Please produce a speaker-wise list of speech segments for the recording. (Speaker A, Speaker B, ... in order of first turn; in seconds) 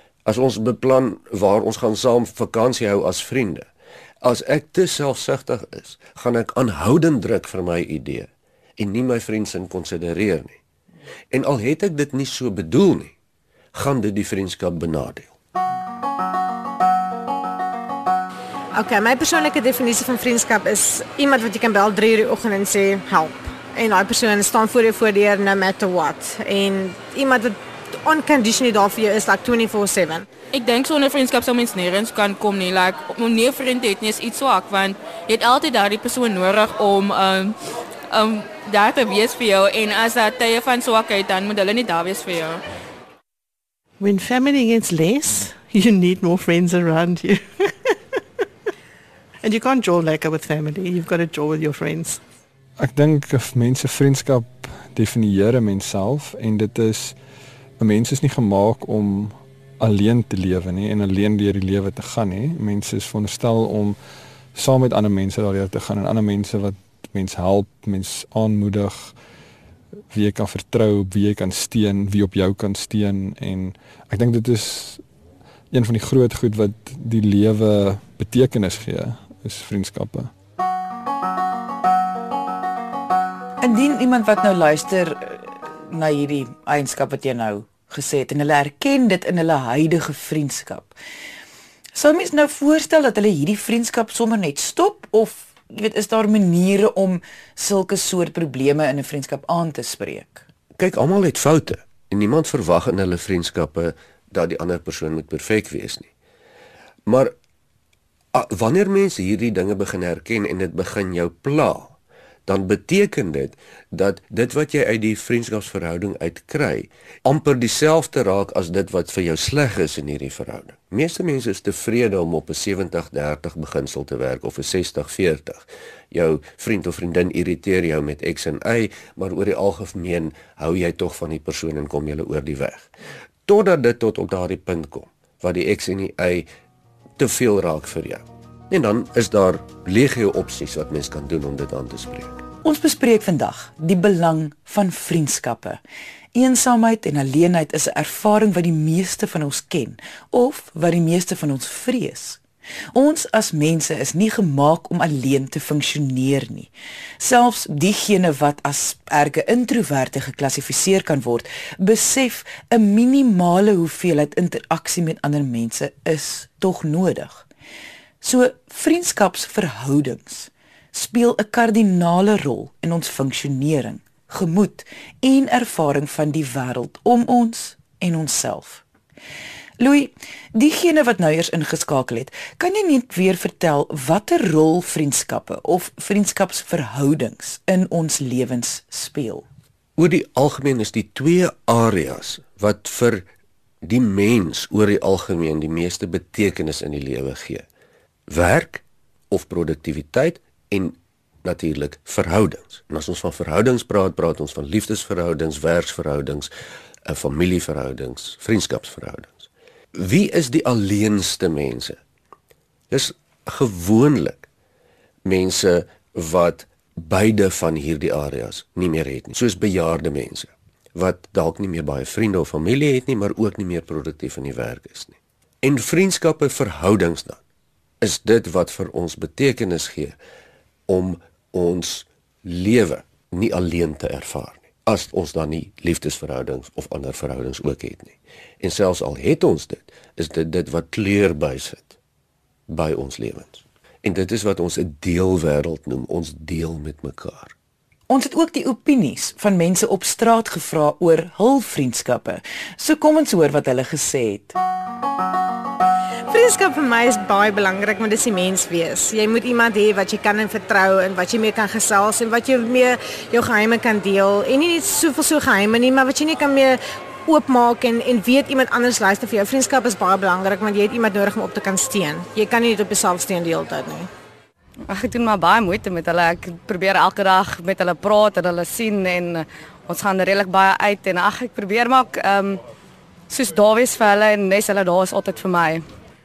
Speaker A: 0.2-3.7, 4.2-10.6, 11.3-13.2, 13.7-15.3, 100.8-106.1, 107.1-107.3, 108.3-132.9, 133.5-136.5, 137.2-142.4, 190.0-193.3, 193.8-197.7, 198.3-206.5, 207.1-212.0, 212.9-214.5, 215.2-227.4, 228.0-230.2, 230.9-242.0, 242.7-247.5
Speaker B: 18.8-30.3, 256.3-274.1
Speaker C: 30.5-37.6, 38.1-42.6
Speaker D: 44.0-48.0, 49.4-52.2
Speaker E: 52.8-57.2, 57.8-64.0, 64.5-69.2, 70.1-75.1, 75.7-80.3
Speaker F: 83.6-91.0, 92.0-100.5, 142.6-145.8, 146.3-152.4, 152.9-167.5, 168.2-178.8, 179.8-189.5, 248.1-254.6
Speaker G: 274.9-282.6, 283.3-285.9